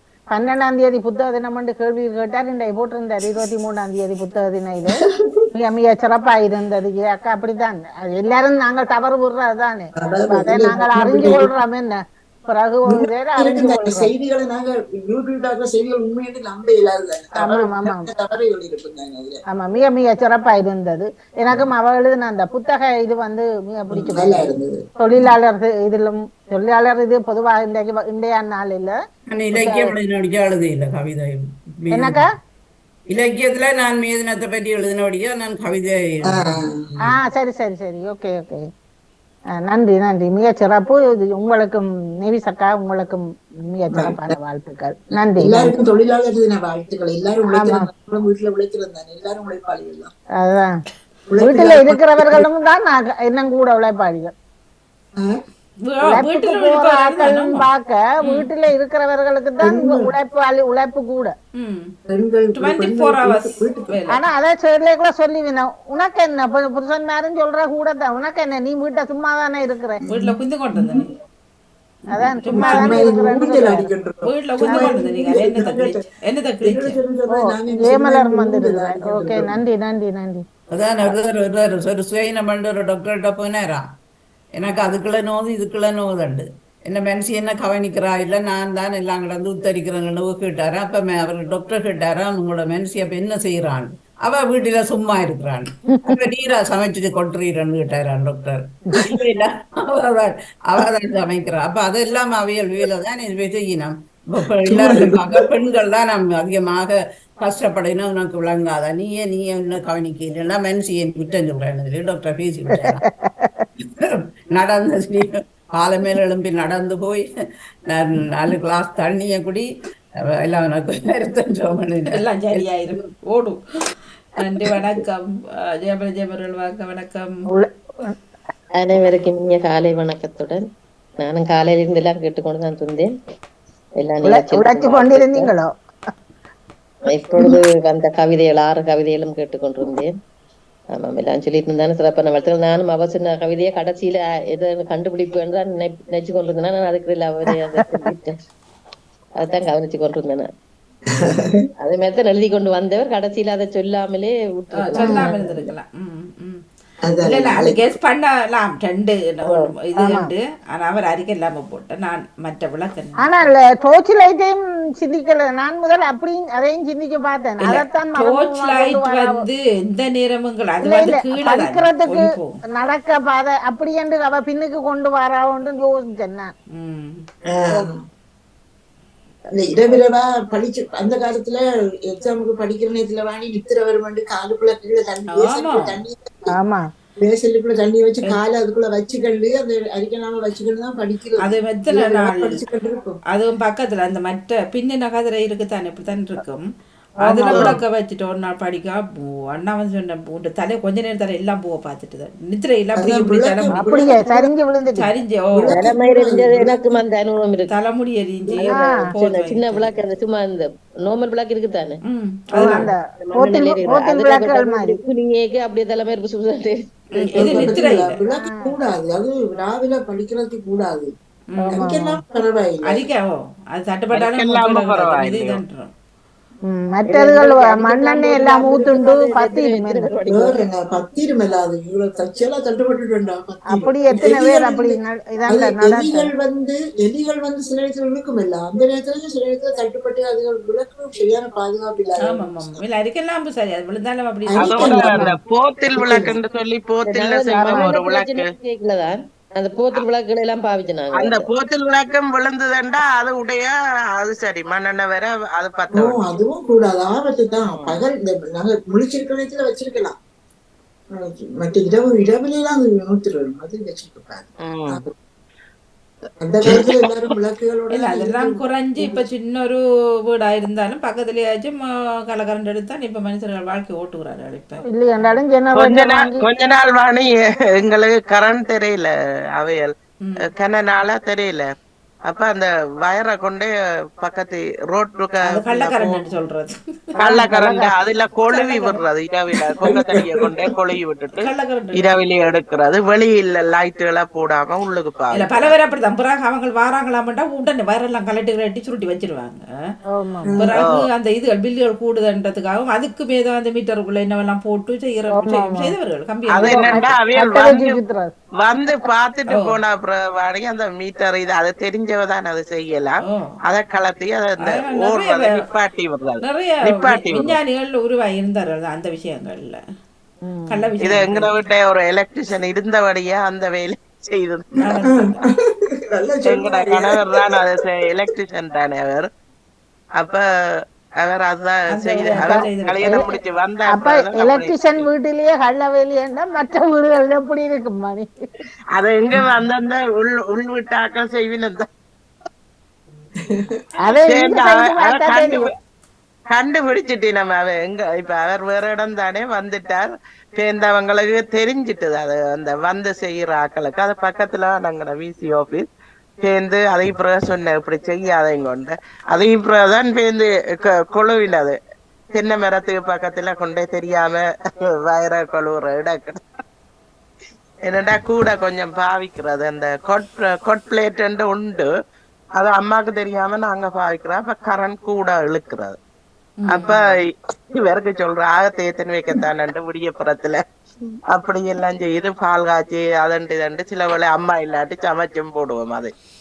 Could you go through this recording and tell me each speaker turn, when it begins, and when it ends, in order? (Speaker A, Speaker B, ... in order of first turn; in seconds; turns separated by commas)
Speaker A: 0.3-5.0, Speaker A: 5.6-14.1, Speaker B: 10.0-11.5, Speaker B: 12.9-19.4, Speaker A: 17.4-18.1, Speaker A: 19.5-28.9, Speaker B: 23.9-25.3, Speaker C: 29.3-32.2, Speaker A: 29.5-29.9, Speaker A: 31.9-32.3, Speaker C: 33.1-36.5, Speaker B: 36.3-36.9, Speaker A: 37.1-38.6, Speaker A: 39.6-45.7, Speaker B: 43.9-44.3, Speaker B: 45.3-50.1, Speaker A: 47.5-47.9, Speaker A: 50.4-50.7, Speaker B: 51.3-52.4, Speaker A: 51.4-54.3, Speaker D: 55.9-57.6, Speaker A: 56.0-61.3, Speaker B: 59.6-60.1, Speaker D: 61.6-61.9, Speaker B: 62.1-64.0, Speaker D: 62.5-64.2, Speaker A: 64.1-70.0, Speaker B: 70.1-71.1, Speaker D: 70.1-71.1, Speaker A: 72.1-73.9, Speaker B: 72.2-76.0, Speaker D: 72.4-73.1, Speaker D: 74.2-77.0, Speaker A: 74.7-74.9, Speaker B: 76.6-79.6, Speaker A: 77.3-80.4, Speaker C: 80.7-83.9, Speaker C: 84.5-113.0, Speaker B: 104.7-105.4, Speaker A: 112.8-113.6, Speaker C: 114.0-117.3, Speaker C: 117.9-119.7, Speaker C: 120.2-123.0, Speaker D: 122.1-123.6, Speaker D: 124.4-125.2, Speaker D: 125.8-127.3, Speaker A: 127.5-128.1, Speaker E: 128.8-130.6, Speaker E: 131.2-133.1, Speaker E: 134.0-135.5, Speaker A: 134.2-135.7, Speaker E: 137.1-140.1, Speaker E: 140.9-148.3, Speaker A: 147.6-148.0, Speaker E: 149.4-150.5, Speaker B: 151.2-151.6, Speaker E: 151.8-155.5, Speaker D: 154.7-156.6, Speaker B: 155.0-155.7, Speaker B: 157.1-157.8, Speaker D: 157.2-163.5, Speaker A: 160.0-160.3, Speaker A: 163.2-169.4, Speaker D: 167.6-172.6, Speaker A: 170.8-176.5, Speaker D: 176.8-177.2, Speaker B: 177.5-177.9, Speaker B: 179.6-186.5, Speaker D: 185.3-185.9, Speaker B: 187.2-193.2, Speaker D: 191.4-192.5, Speaker D: 193.3-196.6, Speaker A: 197.2-197.7, Speaker D: 197.2-203.8, Speaker B: 202.9-204.5, Speaker A: 203.7-205.1, Speaker D: 204.9-205.7, Speaker B: 205.5-206.8, Speaker E: 205.7-207.7, Speaker D: 207.7-209.9, Speaker E: 208.5-212.0, Speaker A: 208.7-209.1, Speaker D: 212.1-212.9, Speaker A: 212.6-215.0, Speaker E: 212.6-217.6, Speaker D: 217.1-218.2, Speaker B: 217.3-221.1, Speaker A: 218.3-218.7, Speaker D: 221.5-221.8, Speaker A: 221.7-222.2, Speaker B: 221.7-223.1, Speaker D: 222.9-225.9, Speaker F: 224.1-225.6, Speaker A: 226.7-230.2, Speaker E: 227.1-230.7, Speaker B: 230.3-242.8, Speaker A: 233.7-236.3, Speaker D: 242.3-245.2, Speaker B: 244.5-245.3, Speaker F: 244.6-248.5, Speaker B: 245.9-246.3, Speaker E: 247.0-251.5, Speaker F: 251.1-256.3, Speaker B: 255.9-260.1, Speaker E: 257.7-258.0, Speaker B: 261.2-265.1, Speaker F: 264.6-265.0, Speaker B: 266.4-269.2, Speaker F: 266.7-267.0, Speaker D: 267.9-269.8, Speaker D: 270.3-271.8, Speaker D: 272.3-275.4, Speaker A: 274.9-276.4, Speaker F: 275.7-281.7, Speaker F: 282.3-286.2, Speaker D: 285.4-289.0, Speaker F: 287.2-295.7, Speaker B: 289.8-290.7, Speaker D: 291.3-292.2, Speaker D: 295.3-299.6, Speaker A: 300.1-300.6, Speaker B: 300.5-300.8, Speaker D: 300.6-307.1, Speaker F: 300.7-301.1, Speaker A: 305.3-305.9, Speaker F: 306.5-308.0, Speaker A: 306.6-308.3, Speaker F: 308.6-317.6, Speaker D: 309.5-309.8, Speaker D: 314.6-315.5, Speaker D: 316.4-319.8, Speaker A: 320.5-320.9, Speaker D: 320.7-321.6, Speaker F: 321.0-324.7, Speaker D: 324.8-325.4, Speaker B: 324.9-325.4, Speaker B: 326.1-327.7, Speaker F: 326.4-329.3, Speaker F: 330.2-330.4, Speaker F: 331.2-335.1, Speaker D: 331.9-333.3, Speaker A: 332.3-333.2, Speaker A: 333.9-338.3, Speaker F: 338.9-341.9, Speaker A: 344.1-345.6, Speaker F: 344.1-345.6, Speaker F: 346.5-355.9, Speaker F: 356.4-361.8, Speaker F: 362.3-366.4, Speaker F: 367.9-371.9, Speaker F: 372.6-376.0, Speaker D: 376.6-377.0, Speaker F: 376.7-380.6, Speaker F: 381.3-386.1